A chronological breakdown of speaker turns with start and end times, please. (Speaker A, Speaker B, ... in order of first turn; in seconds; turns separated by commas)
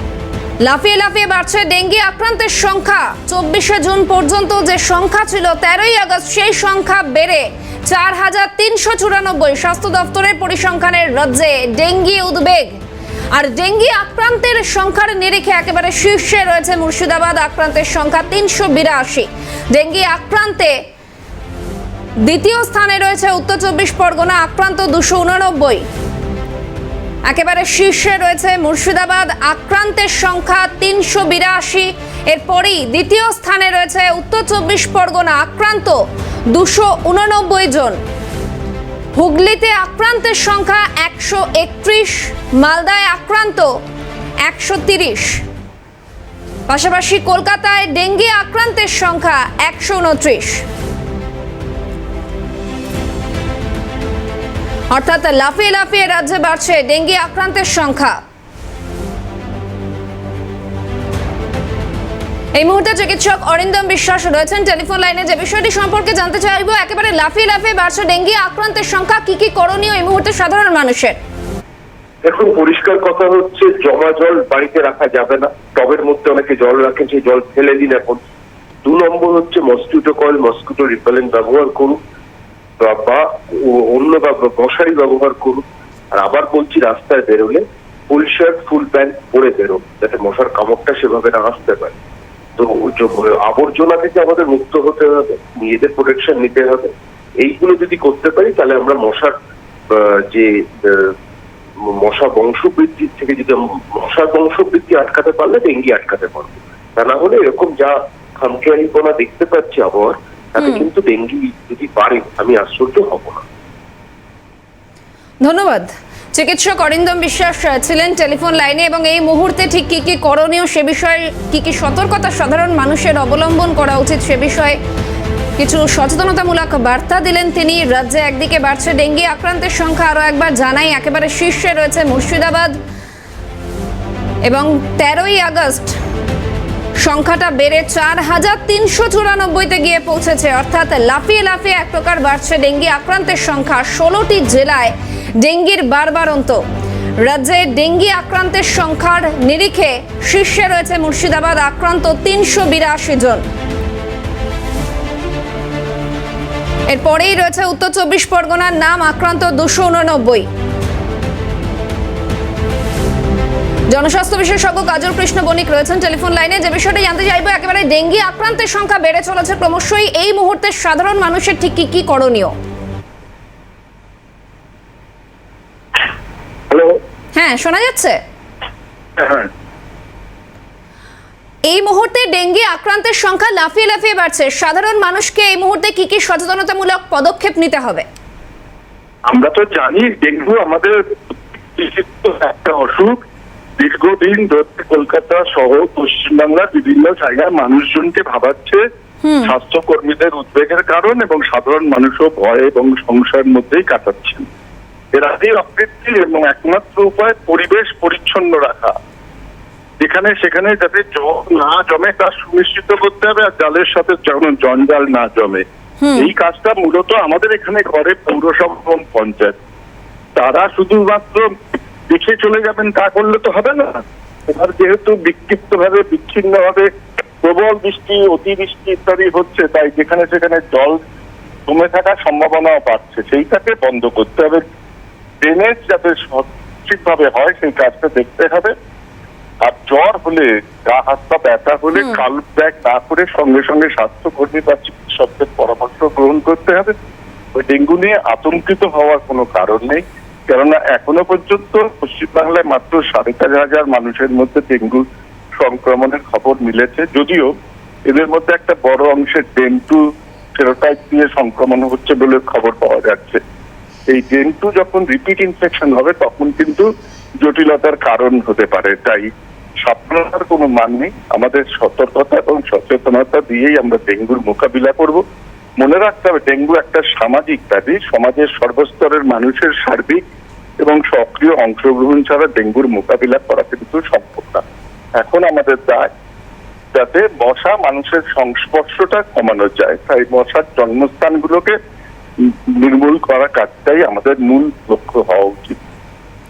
Speaker A: 0.6-12.8, Speaker A: 13.3-20.8, Speaker A: 22.2-25.9, Speaker A: 27.2-38.0, Speaker A: 39.1-43.8, Speaker A: 44.4-45.4, Speaker A: 46.7-50.6, Speaker A: 54.9-58.2, Speaker A: 62.5-71.2, Speaker B: 72.2-78.2, Speaker B: 78.8-82.0, Speaker B: 82.8-85.6, Speaker B: 86.2-92.0, Speaker B: 92.6-95.1, Speaker B: 95.6-99.3, Speaker B: 99.9-101.1, Speaker B: 102.0-113.4, Speaker A: 110.6-110.8, Speaker A: 115.4-124.8, Speaker A: 125.6-132.7, Speaker A: 134.4-135.9, Speaker A: 137.0-146.6, Speaker A: 147.2-153.4, Speaker A: 156.9-160.5, Speaker A: 163.9-172.5, Speaker C: 176.7-177.0, Speaker A: 177.3-178.2, Speaker C: 179.2-179.5, Speaker A: 181.7-188.1, Speaker C: 189.3-193.2, Speaker C: 193.8-198.8, Speaker A: 199.2-199.5, Speaker C: 199.4-204.5, Speaker C: 205.1-208.9, Speaker C: 210.0-215.6, Speaker A: 216.0-216.3, Speaker C: 216.2-219.6, Speaker C: 220.4-221.5, Speaker C: 222.1-226.9, Speaker C: 227.4-231.0, Speaker C: 231.7-234.6, Speaker C: 235.4-238.7, Speaker C: 239.6-246.9, Speaker C: 247.6-255.0, Speaker C: 255.6-257.5, Speaker C: 258.1-260.0, Speaker C: 260.6-263.4, Speaker C: 264.1-266.9, Speaker C: 267.4-269.3, Speaker C: 269.8-275.2, Speaker C: 275.8-280.2, Speaker C: 280.8-284.6, Speaker C: 285.2-286.1, Speaker C: 286.9-291.8, Speaker C: 292.8-295.8